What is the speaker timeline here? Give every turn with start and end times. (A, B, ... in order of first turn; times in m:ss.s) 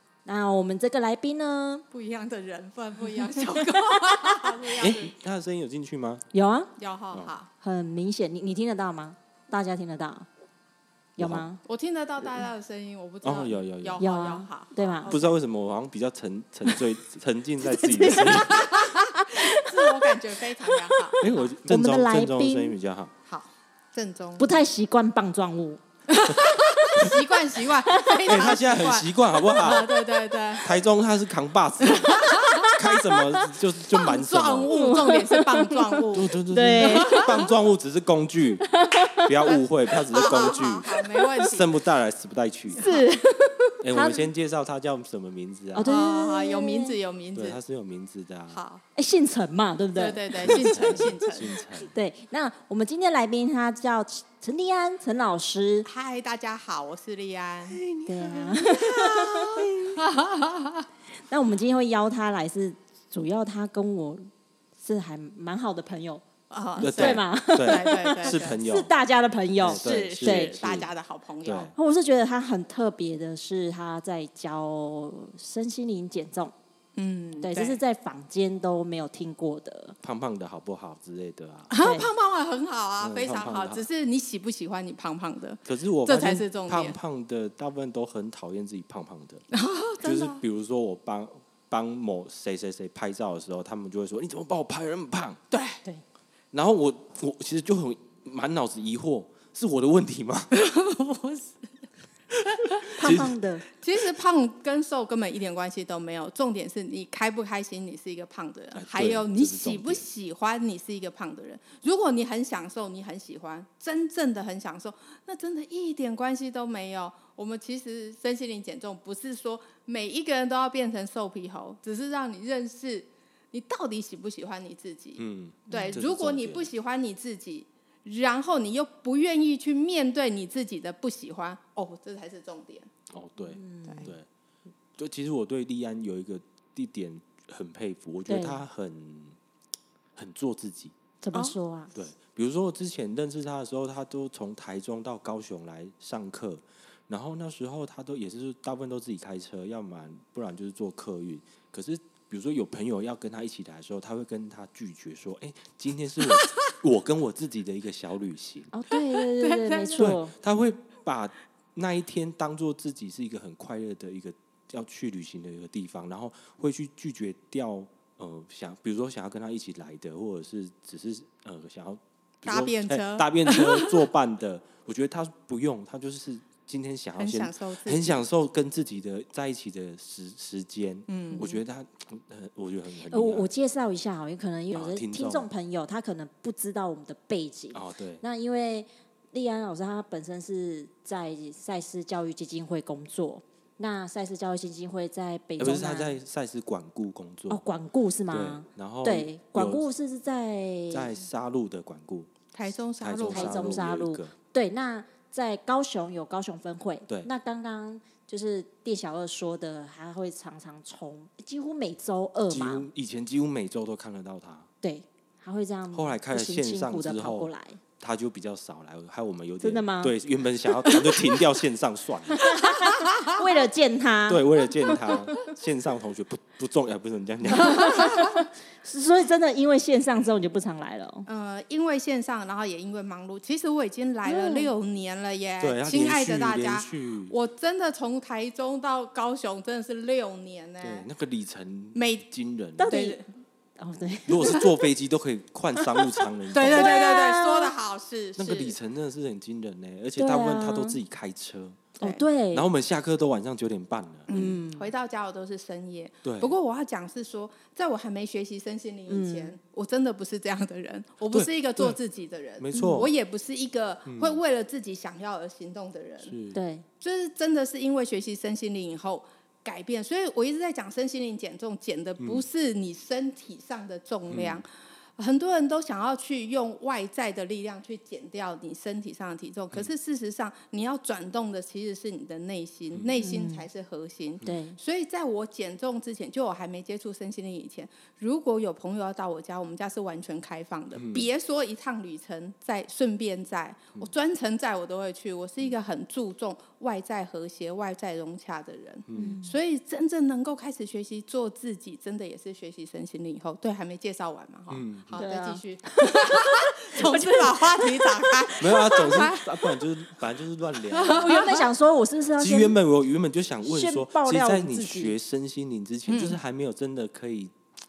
0:00.2-0:01.8 A
0:01.9-0:05.1 B
0:03.7-0:04.5 A
0:04.8-0:06.3 C
0:06.3-0:06.7 A
0:06.8-0:07.5 B
0:07.6-0:10.3 A
0:11.2-0:11.4 C
0:11.2-0:11.6 A
0:11.6-0:15.4 B
0:13.2-0:14.0 C
0:14.0-0:15.1 A
0:15.0-0:18.6 C
0:17.6-0:22.8 A
0:18.1-0:21.3 B
0:21.2-0:23.1 C
0:23.3-0:24.6 B
0:24.4-0:27.2 A
0:26.1-0:30.7 B
0:27.9-0:28.4 A
0:28.2-0:29.9 C
0:29.7-0:30.6 A
0:30.6-0:34.7 C
0:31.9-0:32.7 B
0:32.1-0:33.5 A
0:33.9-0:37.5 B
0:34.7-0:37.2 A
0:36.1-0:42.8 C
0:38.6-0:39.4 A
0:39.4-0:41.8 B
0:42.7-0:43.2 A
0:42.7-0:43.7 B
0:43.8-0:45.9 C
0:43.9-0:44.3 A
0:45.7-0:47.0 A
0:45.8-0:47.6 B
0:47.3-0:48.6 C
0:48.5-0:48.8 B
0:49.0-0:55.9 A
0:49.9-0:51.5 B
0:50.4-0:51.9 C
0:55.8-1:00.8 B
0:57.9-1:00.0 A
1:01.3-1:06.2 A
1:06.5-1:08.5 B
1:06.8-1:08.9 C
1:06.8-1:10.6 A
1:09.6-1:10.9 C
1:09.7-1:11.7 B
1:11.4-1:11.7 C
1:11.7-1:16.5 A
1:17.0-1:17.8 B
1:17.4-1:20.0 A
1:20.0-1:21.7 C
1:21.7-1:27.0 B
1:21.8-1:22.1 A
1:23.0-1:23.8 C
1:25.6-1:29.4 C
1:29.5-1:30.4 B
1:30.0-1:35.4 C
1:35.5-1:35.8 B
1:36.5-1:40.5 C
1:40.5-1:41.8 B
1:42.5-1:43.2 B
1:42.9-1:43.3 C
1:42.9-1:43.6 A
1:43.8-2:12.9 B
1:48.7-1:50.1 C
2:05.2-2:06.7 C
2:05.7-2:06.0 A
2:13.1-2:14.3 C
2:13.4-2:14.1 A
2:15.0-2:19.4 C
2:18.3-2:18.6 A
2:20.2-2:20.9 C
2:21.2-2:21.9 A
2:21.9-2:38.7 C
2:38.7-2:40.3 A
2:38.9-2:40.1 B
2:40.0-3:03.5 C
2:52.4-2:54.0 B
2:57.2-2:58.2 B
3:01.1-3:01.6 B
3:03.1-3:16.1 A
3:04.7-3:05.5 C
3:07.7-3:08.2 C
3:15.6-3:17.6 C
3:17.5-3:21.1 A
3:18.3-3:19.8 C
3:20.9-3:22.3 C
3:22.5-3:23.8 B
3:23.0-3:24.3 C
3:23.3-3:32.9 A
3:32.5-3:34.7 C
3:34.8-3:37.8 A
3:35.9-3:42.5 C
3:39.6-3:40.2 A
3:42.4-3:45.1 A
3:42.8-3:43.3 B
3:44.3-3:48.2 C
3:47.5-3:51.3 A
3:47.8-3:48.1 B
3:51.3-4:01.1 B
3:54.2-3:54.7 A
3:55.6-3:57.3 C
4:00.8-4:02.9 C
4:01.9-4:02.2 B
4:02.8-4:03.2 A
4:02.9-4:03.2 B
4:03.8-4:04.7 A
4:04.3-4:07.0 C
4:05.8-4:07.7 A
4:06.5-4:08.8 B
4:08.4-4:12.0 C
4:10.2-4:11.0 A
4:12.0-4:12.7 A
4:12.5-4:14.3 C
4:14.3-4:26.4 B
4:14.3-4:14.9 A
4:16.2-4:16.6 C
4:19.1-4:19.5 A
4:21.3-4:22.0 C
4:22.6-4:23.1 C
4:24.1-4:24.4 C
4:26.2-4:26.6 C
4:26.5-4:26.8 A
4:27.0-4:34.7 B
4:32.2-4:32.4 C
4:34.3-4:34.6 C
4:35.2-5:09.8 B
4:43.2-4:43.7 A
4:44.4-4:44.8 A
4:50.9-4:51.3 C
4:59.1-4:59.4 C
4:59.1-4:59.6 A
5:04.7-5:05.2 C
5:05.2-5:09.0 A
5:08.6-5:11.5 C
5:10.9-5:11.7 B
5:11.0-5:12.8 A
5:12.4-5:17.5 C
5:13.6-5:15.2 A
5:16.1-5:16.4 B